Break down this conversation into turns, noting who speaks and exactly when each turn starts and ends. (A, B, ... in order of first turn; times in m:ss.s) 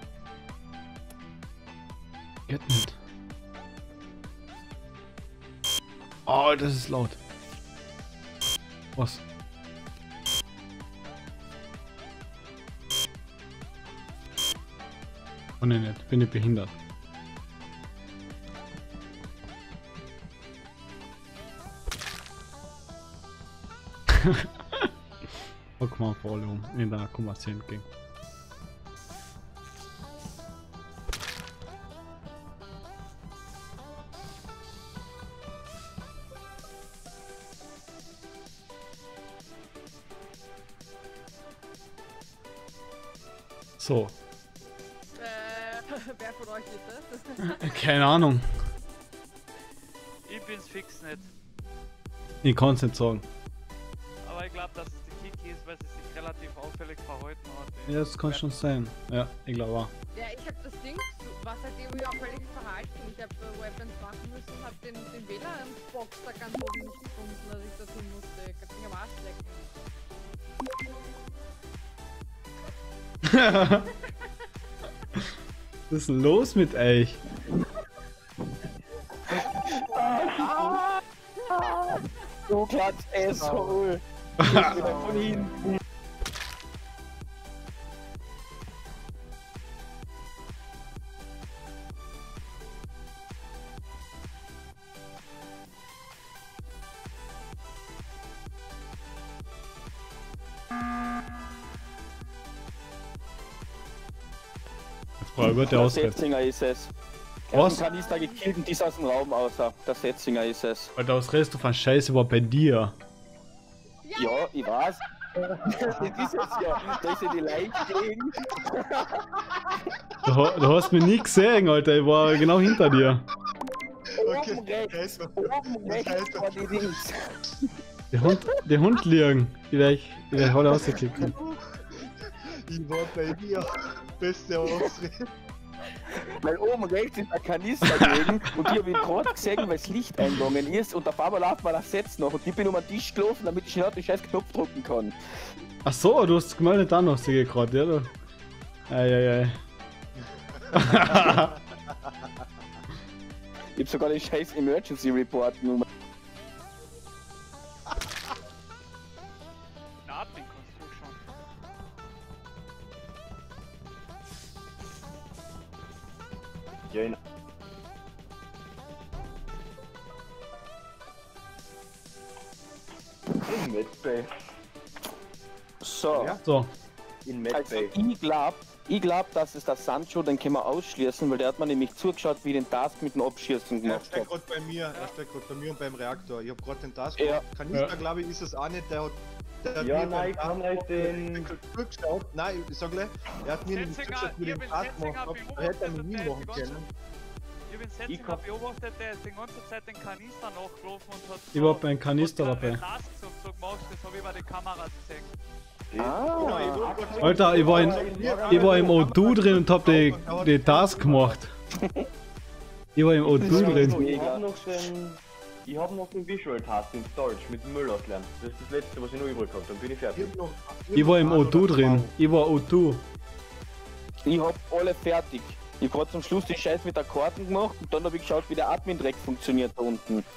0:02.5-0:03.0 A
0:06.3-0:07.2 A
0:09.0-0:09.2 A
0:15.6-0:16.8 A
0:25.8-0:27.9 A
0:43.8-0:44.1 A
0:45.2-0:47.8 B
0:47.6-0:48.5 A
0:50.2-0:51.3 C
0:52.4-0:53.2 A
0:54.2-0:58.5 C
0:57.9-0:59.9 A
1:00.1-1:09.6 B
1:13.3-1:13.8 A
1:15.9-1:17.2 A
1:19.3-1:19.6 D
1:19.8-1:20.8 E
1:20.4-1:25.5 D
1:23.3-1:23.8 F
1:24.5-1:25.1 F
1:24.6-1:25.2 E
1:45.2-1:46.2 A
1:45.7-1:46.9 D
1:47.5-1:50.9 D
1:47.5-1:47.8 A
1:47.5-1:48.6 B
1:51.0-1:53.0 A
1:54.0-1:54.5 B
1:54.2-1:55.0 D
1:55.4-1:57.3 F
1:55.7-1:59.2 D
2:00.2-2:03.3 A
2:04.2-2:07.3 D
2:04.2-2:06.9 F
2:08.1-2:11.3 A
2:11.2-2:15.2 F
2:16.3-2:25.2 D
2:25.8-2:28.1 A
2:28.9-2:29.6 A
2:30.8-2:31.5 A
2:30.8-2:32.3 F
2:33.8-2:35.9 D
2:40.0-2:41.2 C
2:46.9-2:47.2 E
2:53.4-2:54.3 E
2:55.8-2:56.4 D
2:56.1-2:56.4 F
2:56.4-2:56.7 A
2:57.2-2:57.9 E
2:57.5-3:04.3 D
3:03.8-3:16.9 F
3:07.2-3:07.4 D
3:09.8-3:11.5 E
3:13.6-3:16.8 C
3:17.7-3:25.3 C
3:18.1-3:18.4 E
3:21.5-3:22.8 A
3:25.9-3:29.1 E
3:26.0-3:26.8 D
3:26.4-3:31.4 F
3:27.2-3:31.5 A
3:33.0-3:34.0 A
3:33.4-3:40.3 E
3:33.4-3:34.8 D
3:33.4-3:33.9 F
3:40.1-3:42.1 F
3:41.0-3:43.0 A
3:44.2-3:50.3 D